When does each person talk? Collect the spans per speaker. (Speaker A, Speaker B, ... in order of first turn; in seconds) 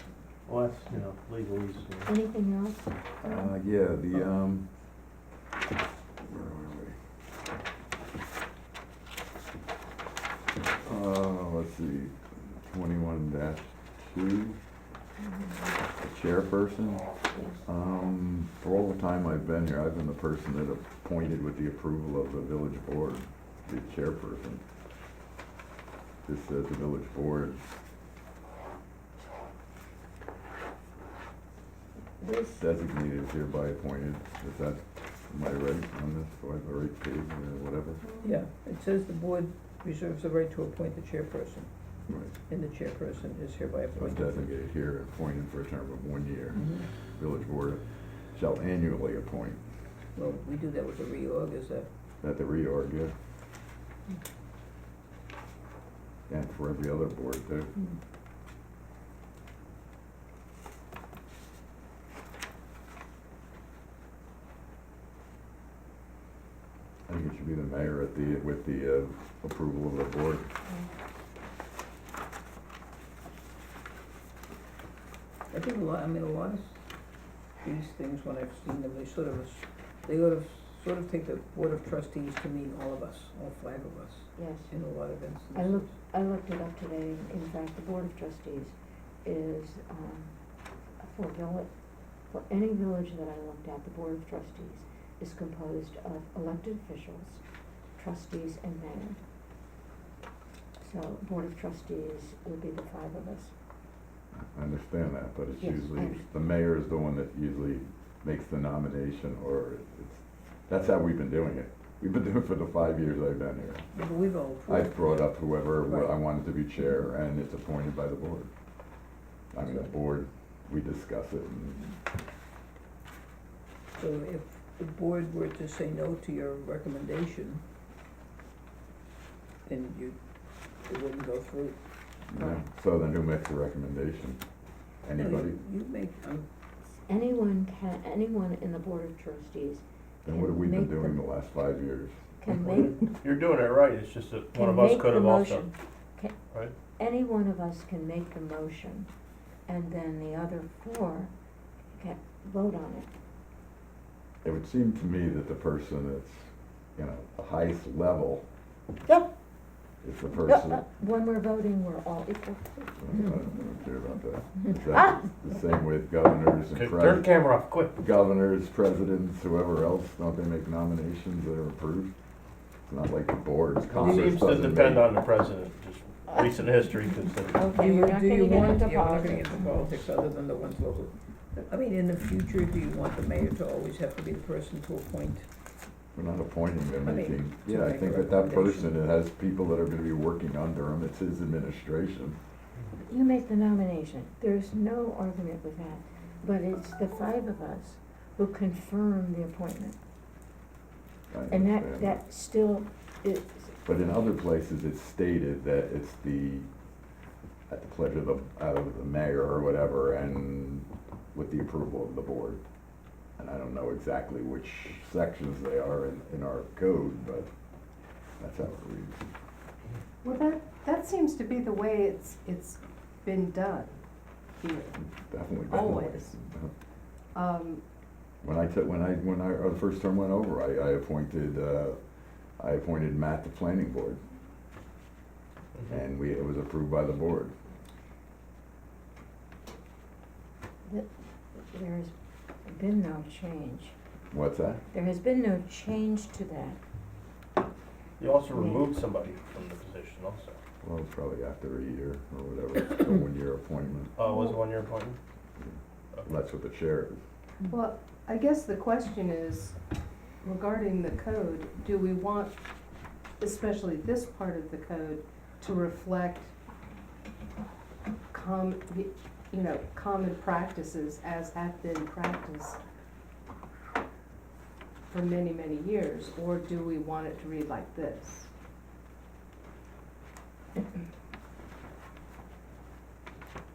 Speaker A: 0.5-2.1, 142.7-145.7, 166.7-167.9, 173.9-177.6, 235.8-236.0, 248.2-250.6, 254.2-255.2
Speaker B: 2.1-3.5, 15.3-15.6, 17.3-17.6, 32.2-32.6, 84.3-84.7, 85.5-90.3, 91.0-91.7, 92.3-97.4, 98.0-99.2, 100.8-103.5, 105.6-106.2, 137.1-141.2, 142.4-143.1, 144.5-146.3, 147.0-149.1, 149.7-151.3, 151.9-153.1, 160.3-163.2, 164.9-165.2, 177.5-179.6, 192.9-200.0, 201.5-203.8, 240.8-242.1, 242.7-243.9, 244.9-246.8, 248.5-248.9
Speaker C: 3.2-4.7, 6.2-7.0, 10.7-14.6, 15.9-17.1, 17.6-24.6, 26.2-27.6, 32.6-38.0, 42.1-42.3, 44.0-47.8, 48.3-49.6, 52.2-53.1, 56.3-57.7, 67.1-70.5, 104.3-113.9, 114.7-118.5, 119.5-122.0, 132.3-134.4, 135.0-135.6, 140.2-142.2, 154.4-158.4, 160.0-160.8, 163.0-167.3, 168.0-172.1, 172.8-175.1, 186.1-192.4, 201.3-202.2, 203.8-206.7, 207.7-212.6, 213.4-217.5, 218.4-219.3, 225.0-226.7, 228.4-232.0, 232.6-234.2, 235.9-237.5, 244.3-244.8, 250.8-254.1, 255.6-257.2
Speaker D: 38.2-41.7, 42.5-44.5, 46.5-46.9, 50.1-51.9, 75.5-76.8, 77.6-85.9, 113.9-115.3, 115.8-116.1, 119.6-119.9, 124.0-127.6, 129.7-130.2, 130.8-131.8, 135.1-136.5, 174.0-174.3, 177.7-185.5, 187.0-189.0
Speaker E: 220.2-224.0, 224.6-225.0, 225.7-226.3, 227.3-227.8, 254.2-254.6, 257.7-259.8, 260.4-262.5, 263.4-266.5, 268.3-272.8, 275.1-278.5